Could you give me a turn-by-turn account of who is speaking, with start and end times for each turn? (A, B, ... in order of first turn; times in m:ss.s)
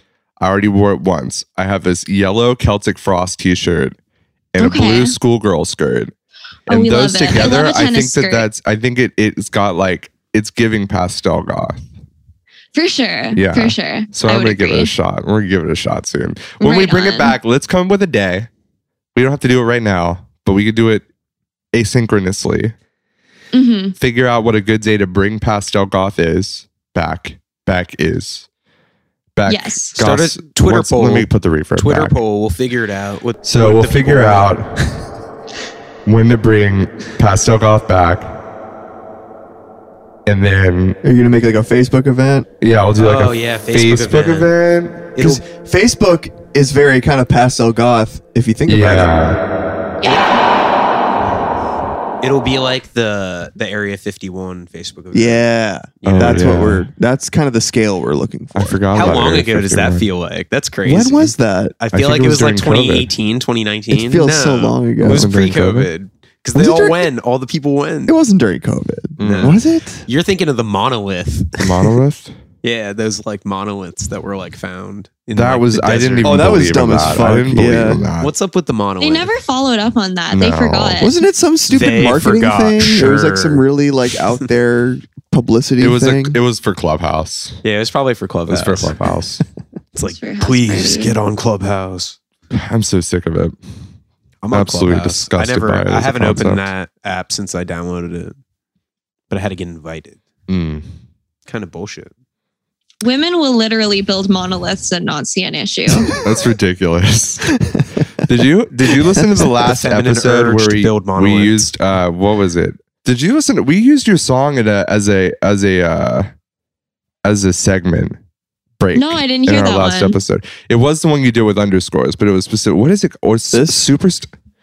0:00.4-0:04.0 A
0:04.5-0:06.1 A
0:04.6-0:05.2 B
0:06.7-0:08.5 B
0:06.7-0:11.8 A
0:12.7-0:14.9 B
0:13.4-0:18.5 A
0:16.6-0:17.4 B
0:19.1-0:21.0 A
0:21.7-0:22.7 A
0:23.5-0:24.0 B
0:24.0-0:28.4 A
0:29.4-0:32.2 A
0:29.4-0:30.0 B
0:30.0-0:34.8 C
0:33.4-0:34.6 A
0:36.0-0:38.4 A
0:40.2-0:41.0 A
0:41.0-0:42.5 D
0:42.6-0:45.1 A
0:42.9-0:44.5 C
0:45.1-0:45.4 C
0:45.2-0:49.2 D
0:48.7-0:49.4 A
0:50.0-0:50.3 B
0:52.2-0:55.4 C
0:55.1-0:59.4 D
0:56.0-0:56.7 C
0:56.0-0:56.8 A
0:58.5-1:00.1 A
0:58.9-1:08.1 C
1:00.8-1:01.8 D
1:01.9-1:03.1 A
1:03.9-1:05.3 D
1:05.0-1:05.9 A
1:06.5-1:07.1 D
1:08.1-1:10.0 D
1:09.2-1:09.6 A
1:09.2-1:12.0 C
1:11.6-1:12.3 A
1:12.6-1:16.6 C
1:15.3-1:18.3 A
1:16.2-1:18.0 D
1:18.2-1:19.3 C
1:19.0-1:21.1 B
1:20.3-1:21.0 A
1:21.0-1:26.4 D
1:21.7-1:23.6 C
1:25.8-1:27.6 A
1:27.6-1:29.0 C
1:28.5-1:29.4 A
1:29.9-1:32.2 C
1:30.0-1:31.2 B
1:32.5-1:33.6 A
1:34.4-1:38.3 C
1:34.5-1:36.7 A
1:39.3-1:40.2 C
1:40.5-1:40.9 A
1:41.4-1:42.1 C
1:43.0-1:46.1 B
1:46.2-1:47.5 A
1:47.6-1:47.9 D
1:48.2-1:56.3 A
1:49.4-1:51.7 C
1:57.2-1:58.2 A
1:58.8-2:04.3 A
1:58.9-2:00.2 B
2:03.5-2:03.8 D